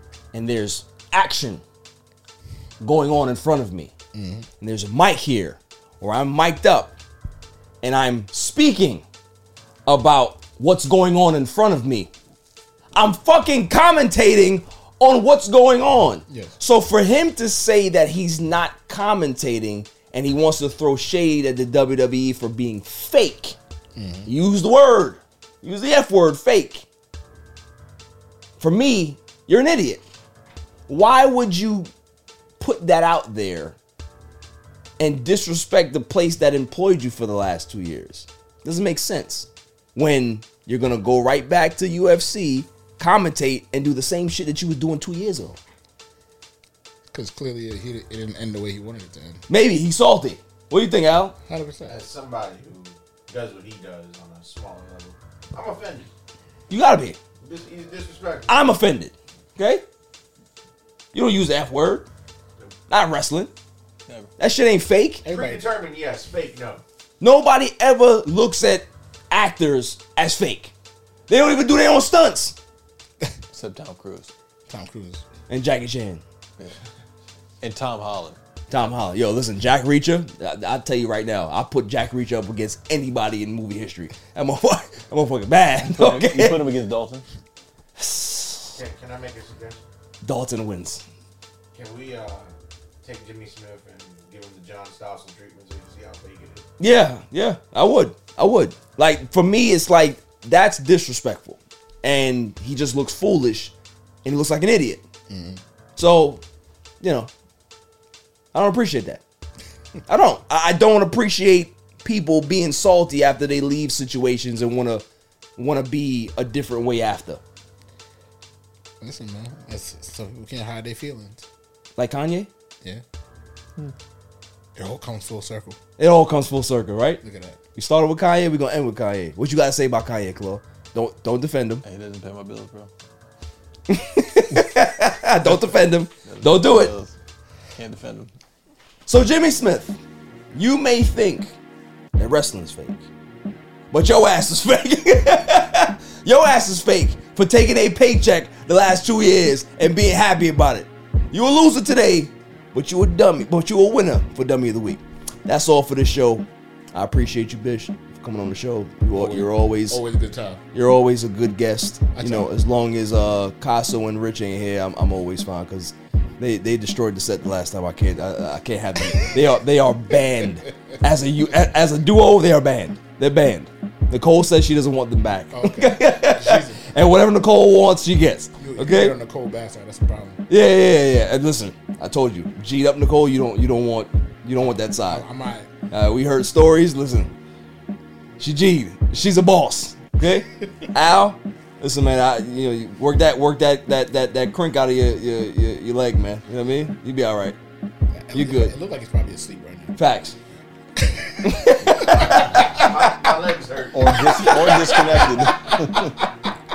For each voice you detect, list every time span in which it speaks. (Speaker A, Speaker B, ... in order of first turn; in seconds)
Speaker A: 0.3-1.6, 2.8-3.9, 4.6-6.9, 7.8-9.0, 9.8-12.1, 12.9-23.6, 24.2-26.9, 28.6-30.0, 30.9-31.9, 32.6-33.8, 35.0-45.6, 49.5-51.3, 56.7-57.2, 58.5-59.8, 61.1-62.0, 62.9-63.5, 64.4-65.2, 67.2-70.7, 71.3-72.6, 75.5-76.2, 78.7-86.6, 88.0-88.7, 90.2-91.0, 96.8-103.7, 104.2-105.0, 106.0-106.4, 107.0-107.3, 108.5-109.2, 110.1-115.0, 115.6-117.4, 122.0-122.5, 126.0-127.2, 127.8-131.8, 133.9-136.9, 139.1-140.0, 140.5-141.5, 142.2-143.0, 143.9-160.0, 160.7-179.2, 180.5-185.2, 185.9-187.3, 188.4-197.6, 198.3-198.7, 199.9-200.3, 201.4-202.5
Speaker B: 4.1-4.5, 16.3-16.6, 23.9-24.3, 47.1-49.4, 51.5-52.0, 65.2-65.6, 74.7-75.2, 105.3-105.6, 119.0-121.4, 124.8-125.8, 127.2-127.6, 159.1-160.6, 162.1-162.5, 175.5-176.8, 178.6-180.4, 184.9-185.7, 198.1-199.9, 201.0-202.8
Speaker C: 51.9-56.1, 57.4-58.6, 65.3-66.8, 88.7-89.8, 91.7-96.6, 202.1-204.6
Speaker D: 73.5-74.3, 77.6-78.4, 85.9-87.2, 131.8-132.9, 136.2-137.1, 137.8-138.3, 203.9-206.2